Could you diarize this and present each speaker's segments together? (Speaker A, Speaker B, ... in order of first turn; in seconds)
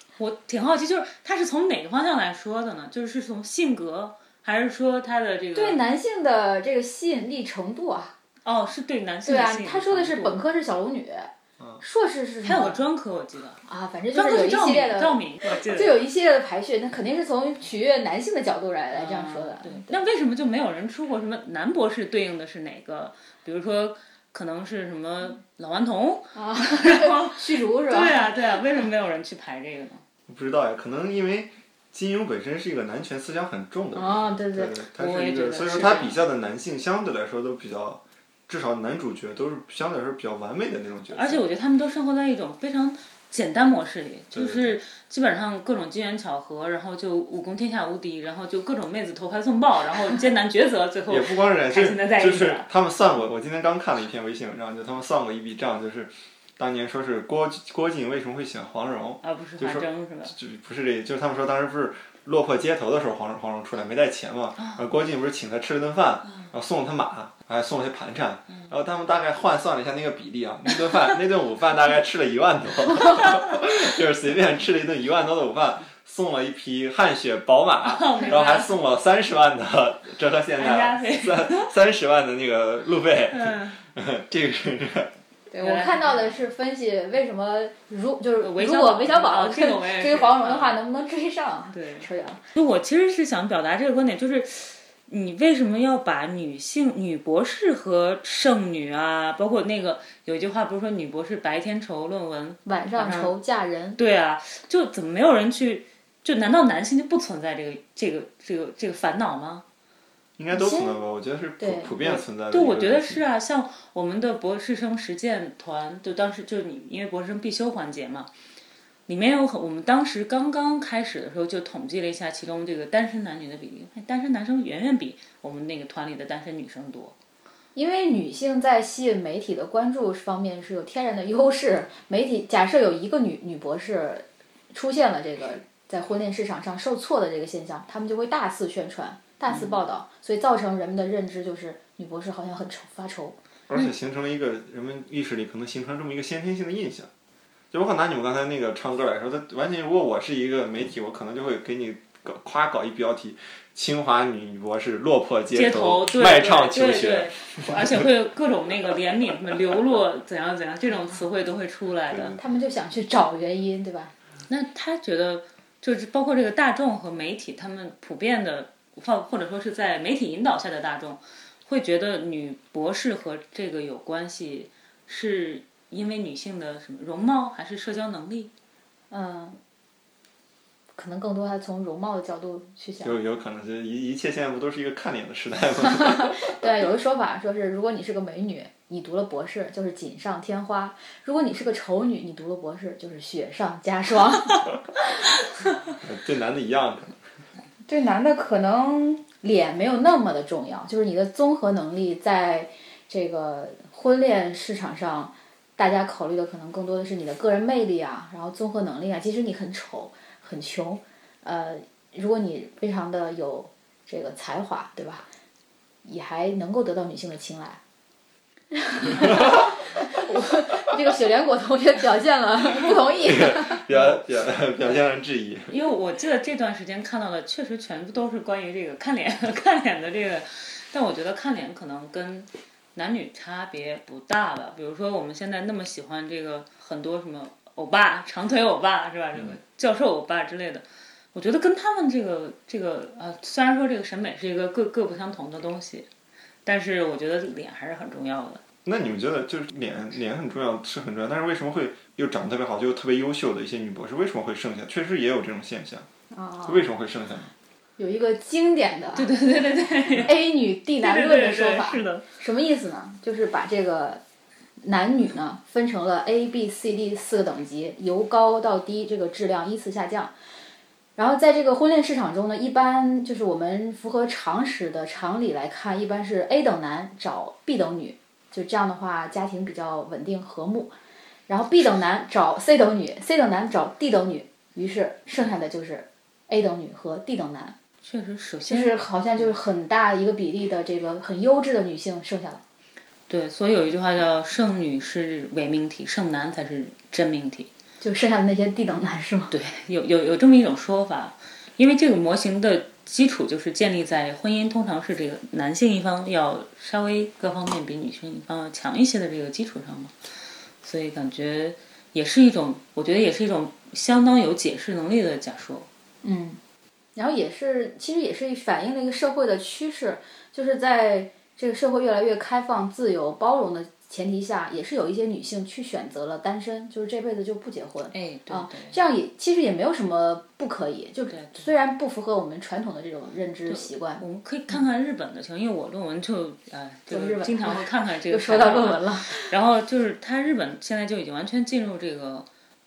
Speaker A: 0.2-5.8, 8.4-10.4, 12.4-13.6, 14.1-16.0, 18.9-30.0, 34.9-36.2, 41.1-52.7, 59.2-60.3, 64.6-64.9, 77.8-78.8, 80.6-81.7, 83.3-83.8, 85.6-86.4, 88.4-90.8, 91.7-103.4, 104.0-109.6, 112.5-118.3, 119.1-127.1, 139.5-139.8, 155.5-162.4, 164.5-178.5, 225.7-246.1, 246.6-248.6, 259.1-260.3, 261.0-262.2, 288.0-289.0, 293.3-297.7, 299.5-310.1, 310.8-315.9, 328.1-329.0, 331.3-331.6, 333.7-342.5
Speaker B: 5.5-8.1, 9.2-11.3, 11.8-12.8, 13.6-20.0, 26.3-28.3, 33.9-34.7, 85.5-92.4, 102.7-104.0, 110.5-111.0, 111.6-112.2, 127.8-143.4, 162.4-164.1, 179.1-179.6, 180.9-183.1, 185.9-194.6, 197.9-215.3, 216.0-217.8, 218.7-223.9, 256.3-256.8, 258.0-259.3, 260.2-264.2, 264.8-270.3, 271.2-280.9, 281.5-287.8, 288.7-292.6, 298.0-299.5, 316.2-316.6, 317.1-334.2, 337.1-339.5
Speaker C: 30.3-41.4, 44.3-44.8, 51.1-85.1, 110.4-113.2, 143.7-147.1, 147.7-158.0, 162.1-162.4, 183.0-186.5, 196.0-197.2, 223.2-225.7, 248.8-256.1, 256.6-257.5